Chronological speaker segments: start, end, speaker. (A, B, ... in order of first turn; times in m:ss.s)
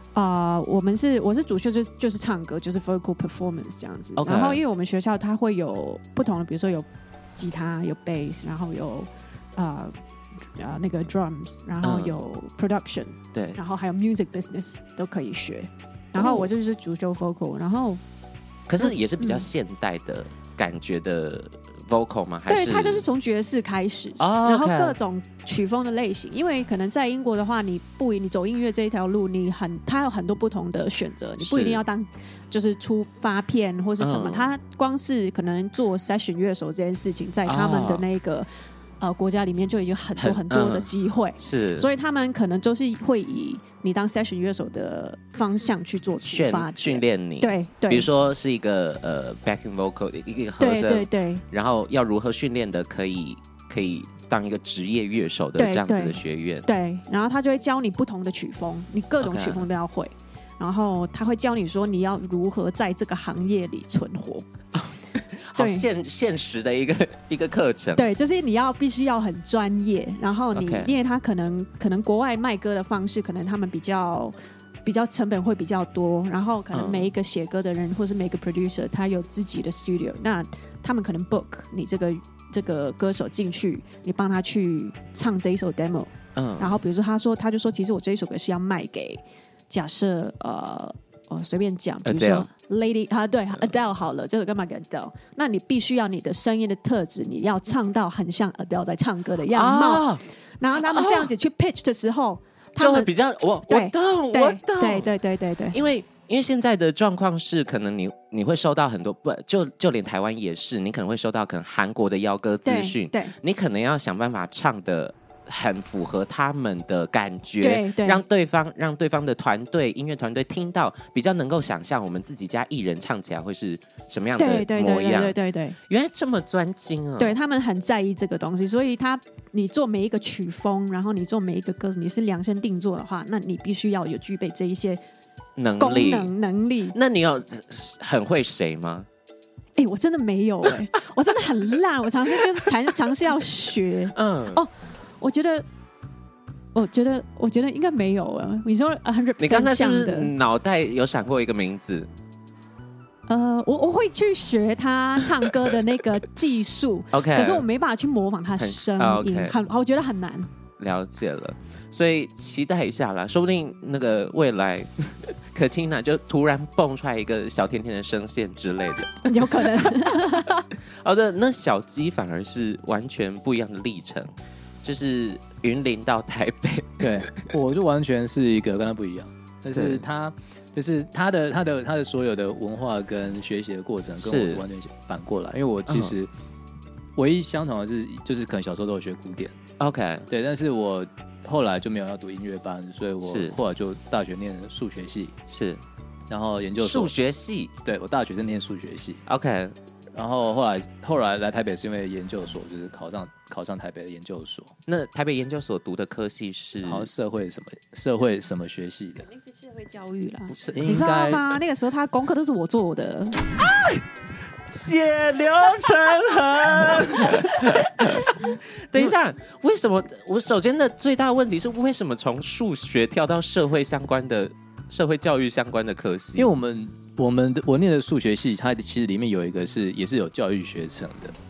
0:00.1-0:09.9 A
0:04.2-0:04.6 B
0:10.6-0:18.0 A
0:11.8-0:12.2 B
0:13.3-0:13.6 B
0:16.2-0:16.5 B
0:18.7-0:23.0 B
0:18.8-0:19.5 A
0:22.5-0:38.5 A
0:24.2-0:25.0 B
0:31.4-0:31.8 B
0:34.0-0:34.5 B
0:37.4-0:38.0 B
0:39.0-0:48.1 A
0:40.2-0:41.9 B
0:46.2-0:56.7 B
0:50.6-0:51.4 A
0:55.6-1:04.5 A
0:59.2-0:59.6 B
1:04.7-1:08.1 B
1:05.6-1:05.9 A
1:08.0-1:43.1 A
1:10.6-1:10.9 B
1:16.7-1:17.1 B
1:26.4-1:26.8 B
1:32.0-1:32.5 B
1:39.5-1:40.2 B
1:40.8-1:41.3 B
1:42.8-1:45.1 B
1:43.7-1:45.8 A
1:45.7-2:05.4 B
1:52.6-1:53.3 A
1:57.6-1:58.2 A
2:04.4-2:05.8 A
2:05.9-2:07.4 B
2:07.2-2:15.0 A
2:15.6-2:16.3 B
2:15.8-2:17.0 A
2:16.9-2:19.1 B
2:19.8-2:25.6 A
2:24.1-2:24.6 B
2:26.7-2:30.3 A
2:29.4-2:32.1 B
2:33.3-2:40.5 A
2:37.1-2:37.6 B
2:38.6-2:39.6 B
2:40.8-2:49.7 B
2:49.2-2:50.7 A
2:51.0-2:54.3 B
2:54.8-2:57.4 B
2:57.0-3:06.3 C
2:59.7-3:00.0 B
3:04.2-3:04.6 B
3:05.9-3:06.2 B
3:07.2-3:09.5 C
3:09.8-3:10.3 B
3:10.3-3:15.4 C
3:13.2-3:13.6 B
3:15.5-3:15.8 B
3:16.3-3:17.1 C
3:16.8-3:17.7 B
3:17.8-3:19.2 C
3:19.3-3:19.8 B
3:20.1-3:24.8 C
3:24.9-3:27.1 B
3:26.8-3:29.3 C
3:29.2-3:33.5 A
3:30.6-3:31.4 C
3:33.6-3:34.0 B
3:34.7-3:46.5 B
3:46.4-3:51.4 C